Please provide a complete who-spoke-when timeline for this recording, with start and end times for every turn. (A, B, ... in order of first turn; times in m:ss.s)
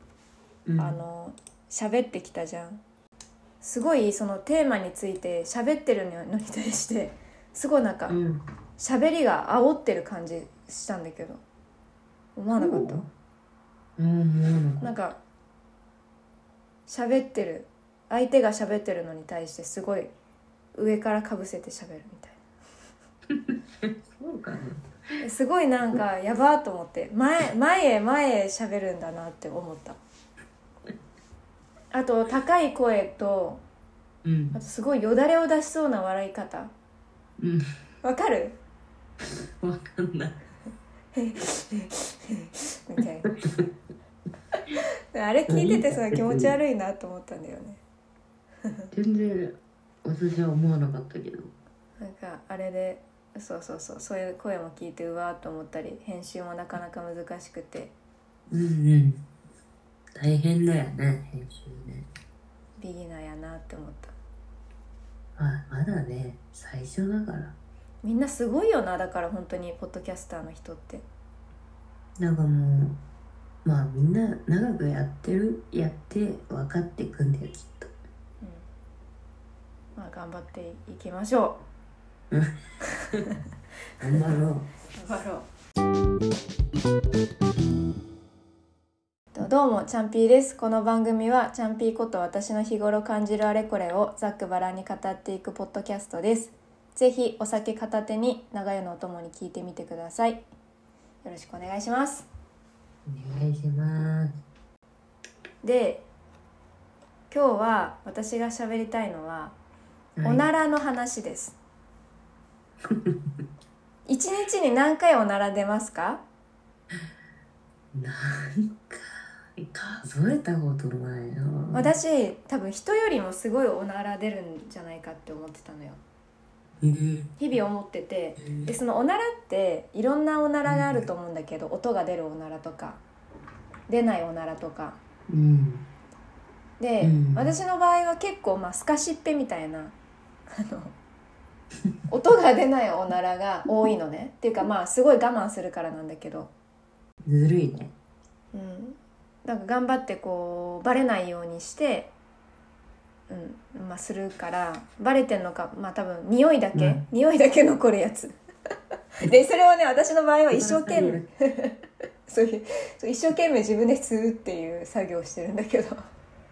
0:00.7-0:01.0 A
0:00.8-0:02.8 B
0:03.6-0:08.2 B
0:08.1-0:08.4 A
0:08.8-0:11.4 B
0:12.4-0:13.1 B
0:12.6-0:13.1 A
0:14.0-0:14.9 A
0:14.8-0:15.2 B
0:16.9-0:20.1 B
0:20.8-0:22.4 B
0:23.4-0:24.8 A
0:25.2-0:30.0 B
0:31.9-0:33.6 B
0:34.2-0:34.6 A
0:34.5-0:36.7 B
0:38.0-0:38.6 B
0:39.6-0:40.4 A
0:41.2-0:43.3 B
0:43.3-0:43.6 A
0:44.6-0:47.8 B
0:45.5-0:46.6 A
0:48.6-0:48.9 B
0:48.9-0:51.5 A
0:52.0-0:57.9 B
0:58.5-0:59.2 A
1:00.2-1:02.1 A
1:02.8-1:04.1 B
1:05.4-1:07.6 A
1:08.0-1:11.0 B
1:12.2-1:13.0 A
1:13.6-1:17.9 A
1:18.4-1:18.7 B
1:20.0-1:21.6 B
1:22.8-1:23.3 B
1:24.0-1:24.7 A
1:24.1-1:24.4 B
1:24.9-1:25.5 B
1:29.3-1:40.4 B
1:41.2-1:42.3 B
1:43.1-1:44.3 A
1:45.6-1:46.0 B
1:47.3-1:49.6 B
1:50.2-1:50.5 A
1:50.2-1:51.6 B
1:54.1-1:56.2 B
1:57.9-2:01.9 A
2:01.7-2:06.0 B
2:06.8-2:07.4 A
2:07.4-2:13.0 B
2:08.4-2:08.7 A
2:10.6-2:11.0 A
2:13.9-2:15.0 B
2:15.3-2:15.9 A
2:16.8-2:20.0 B
2:17.0-2:17.5 A
2:20.5-2:21.0 B
2:22.1-2:26.5 B
2:27.2-2:27.9 A
2:28.5-2:32.1 B
2:33.3-2:38.3 B
2:36.7-2:37.0 A
2:39.2-2:46.0 B
2:40.5-2:41.3 A